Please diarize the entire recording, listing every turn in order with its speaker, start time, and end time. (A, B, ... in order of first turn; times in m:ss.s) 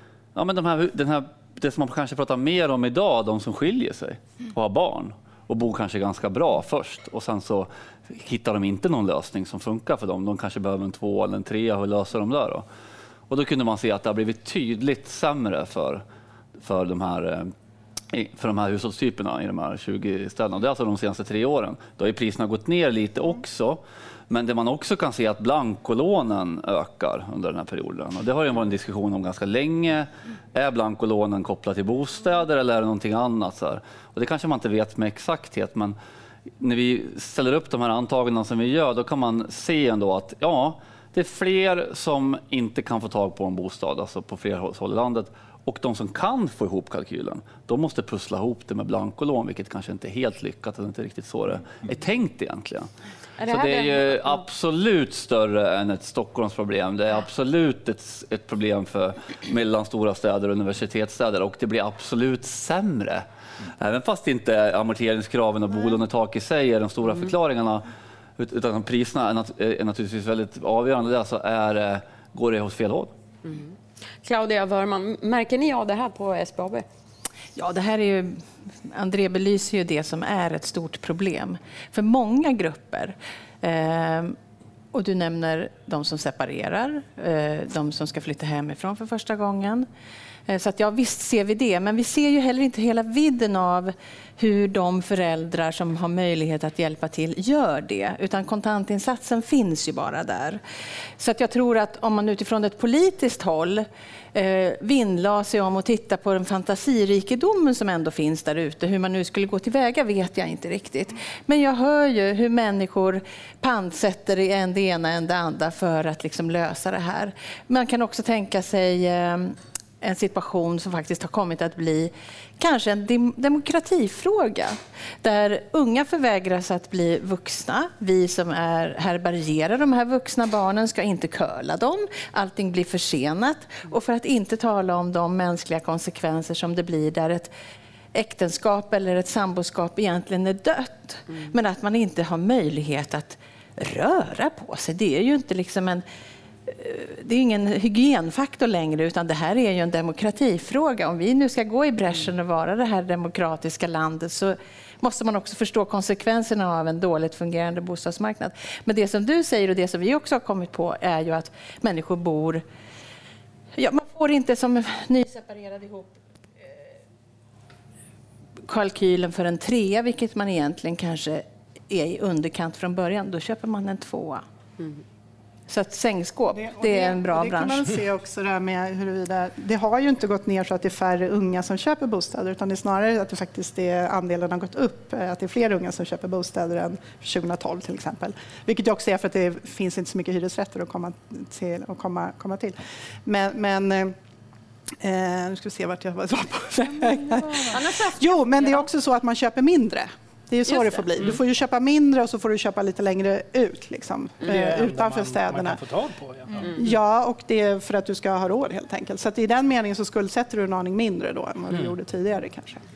0:00.4-0:12.6 A
0:13.3-0:16.0 A
0:16.6-0:17.5 A
0:18.1-0:36.0 A
0:36.6-0:52.9 A
0:53.4-0:54.4 B
0:53.5-1:03.2 A
1:03.8-1:07.9 A
1:08.4-1:13.1 A
1:13.4-1:16.8 B
1:17.6-1:24.4 C
1:24.9-1:29.9 C
1:30.5-1:40.6 C
1:41.2-2:17.5 C
2:18.1-2:26.0 C
2:26.7-2:42.6 C
2:43.8-2:46.8 C
2:48.7-2:54.4 C
2:55.7-2:57.9 C
2:56.5-3:14.2 D
3:15.0-3:25.8 D
3:17.7-3:18.9 B
3:20.7-3:21.4 B
3:24.4-3:26.6 E
3:26.7-3:32.8 D